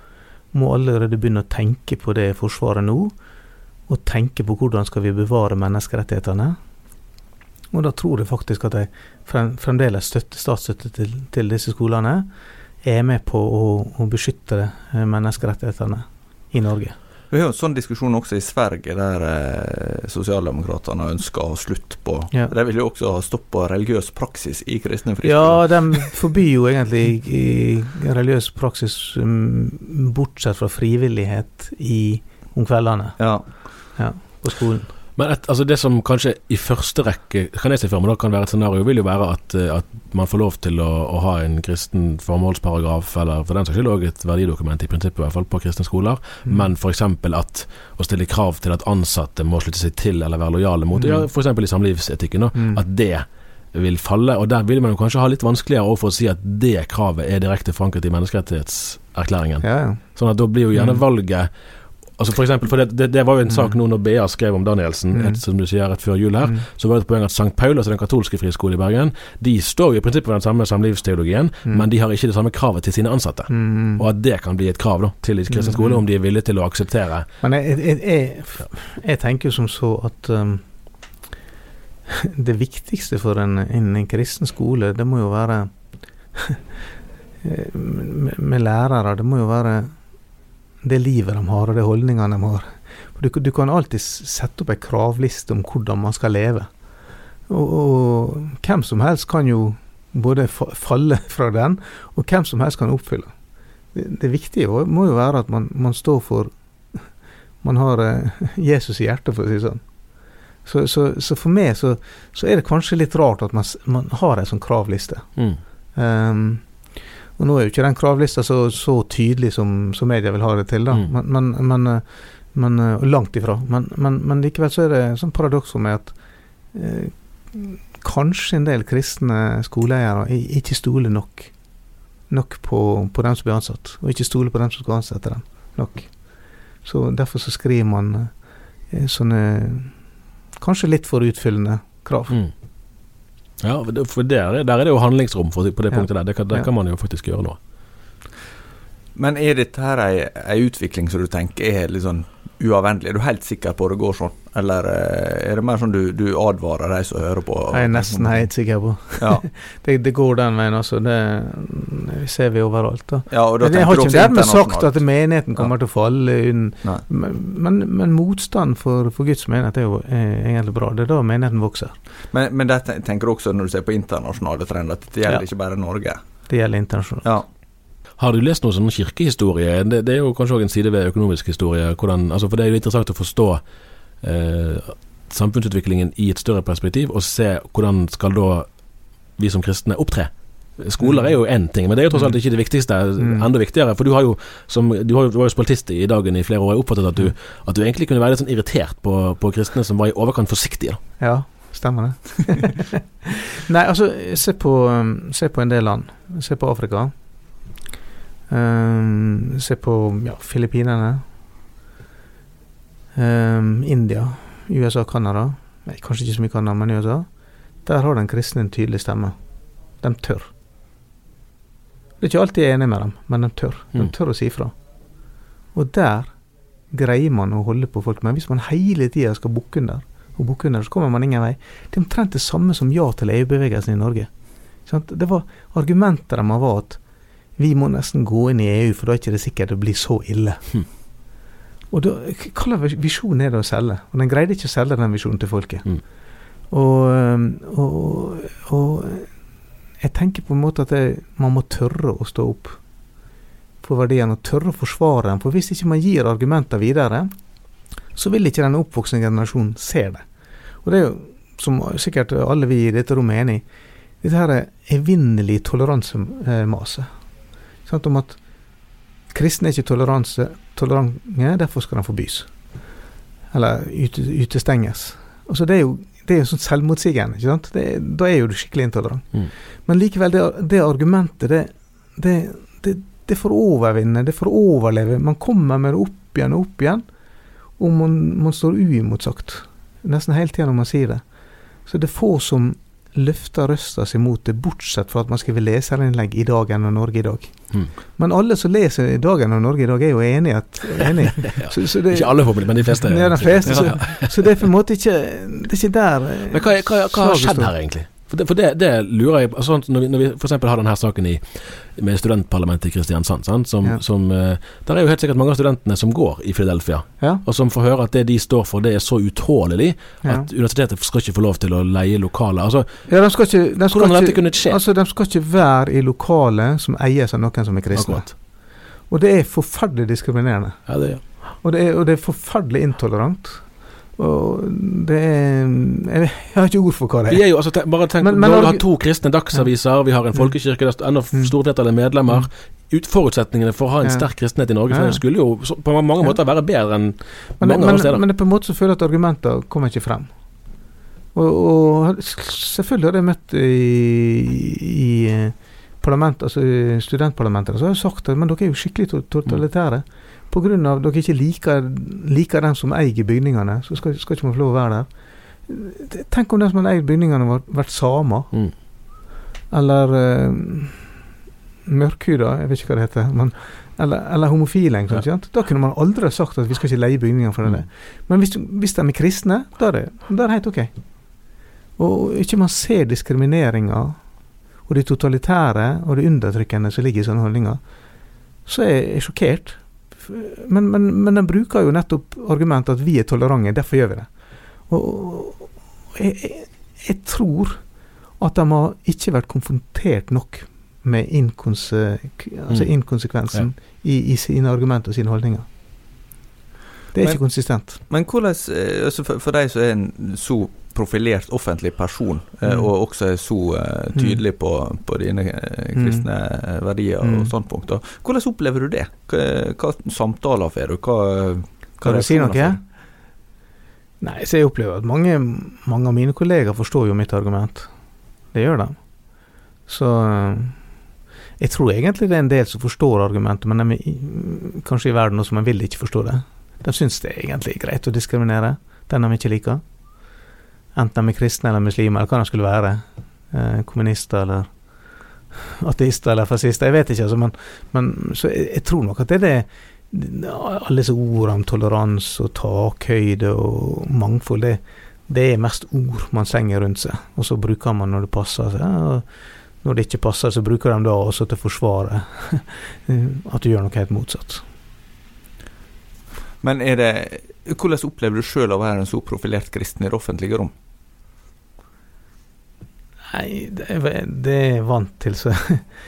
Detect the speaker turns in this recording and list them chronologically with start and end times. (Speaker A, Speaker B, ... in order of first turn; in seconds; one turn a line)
Speaker A: 0.5-3.1
Speaker A: 3.9-6.6
Speaker A: 7.7-12.3
Speaker A: 12.8-16.9
Speaker B: 17.3-26.2
Speaker A: 25.2-34.9
Speaker B: 33.2-33.6
Speaker C: 35.2-61.5
Speaker A: 50.9-51.3
Speaker A: 52.5-52.8
Speaker A: 59.6-60.0
Speaker A: 60.7-61.0
Speaker C: 62.1-77.3
Speaker A: 63.5-63.8
Speaker A: 65.1-65.4
Speaker A: 73.5-74.0
Speaker A: 75.5-76.0
Speaker A: 77.4-81.2
Speaker A: 82.1-85.7
Speaker A: 86.3-86.6
Speaker A: 87.4-90.0
Speaker A: 90.8-96.7
Speaker A: 97.5-103.3
Speaker A: 103.9-109.8
Speaker A: 110.6-126.2
Speaker A: 126.7-131.5
Speaker A: 132.3-142.4
Speaker C: 143.6-147.6
Speaker A: 145.9-146.7
Speaker B: 149.1-158.5
Speaker A: 157.7-171.9
Speaker B: 159.2-159.4
Speaker B: 163.3-165.7
Speaker B: 172.3-176.5
Speaker A: 176.5-177.3
Speaker C: 178.2-183.6
Speaker C: 184.2-188.8
Speaker C: 189.3-201.0
Speaker A: 191.0-191.3
Speaker A: 192.1-193.5
Speaker A: 201.2-207.1
Speaker A: 208.5-211.2
Speaker A: 213.1-217.3
Speaker A: 217.8-219.4
Speaker A: 220.0-220.5
Speaker A: 222.2-224.7
Speaker A: 225.7-226.3
Speaker A: 226.9-237.0
Speaker A: 237.6-241.0
Speaker A: 241.9-246.1
Speaker A: 246.7-249.4
Speaker A: 250.0-252.8
Speaker A: 253.8-257.3
Speaker A: 258.1-260.2
Speaker A: 260.8-263.6
Speaker A: 264.2-267.1
Speaker A: 267.9-268.4
Speaker A: 269.3-272.8
Speaker A: 273.5-287.0
Speaker A: 287.8-307.7
Speaker C: 301.5-304.6
Speaker B: 303.6-303.9
Speaker C: 306.5-324.8
Speaker A: 323.1-340.5
Speaker C: 327.9-328.3
Speaker C: 330.9-331.2
Speaker C: 337.3-348.2
Speaker A: 344.0-345.2
Speaker A: 347.6-350.3
Speaker A: 351.3-365.1
Speaker A: 365.6-368.5
Speaker A: 369.7-371.1
Speaker A: 371.9-380.9
Speaker A: 382.0-384.2
Speaker A: 384.8-387.8
Speaker A: 388.6-405.6
Speaker C: 402.7-403.0
Speaker A: 407.1-408.0
Speaker B: 407.2-422.8
Speaker A: 412.6-412.9
Speaker A: 414.1-414.4
Speaker A: 415.9-416.2
Speaker A: 417.2-417.5
Speaker A: 422.0-422.8
Speaker A: 424.2-427.9
Speaker A: 428.5-429.1
Speaker A: 429.9-430.8
Speaker A: 431.6-439.8
Speaker A: 440.9-444.7
Speaker A: 445.5-464.6
Speaker B: 466.6-470.7
Speaker A: 473.3-475.9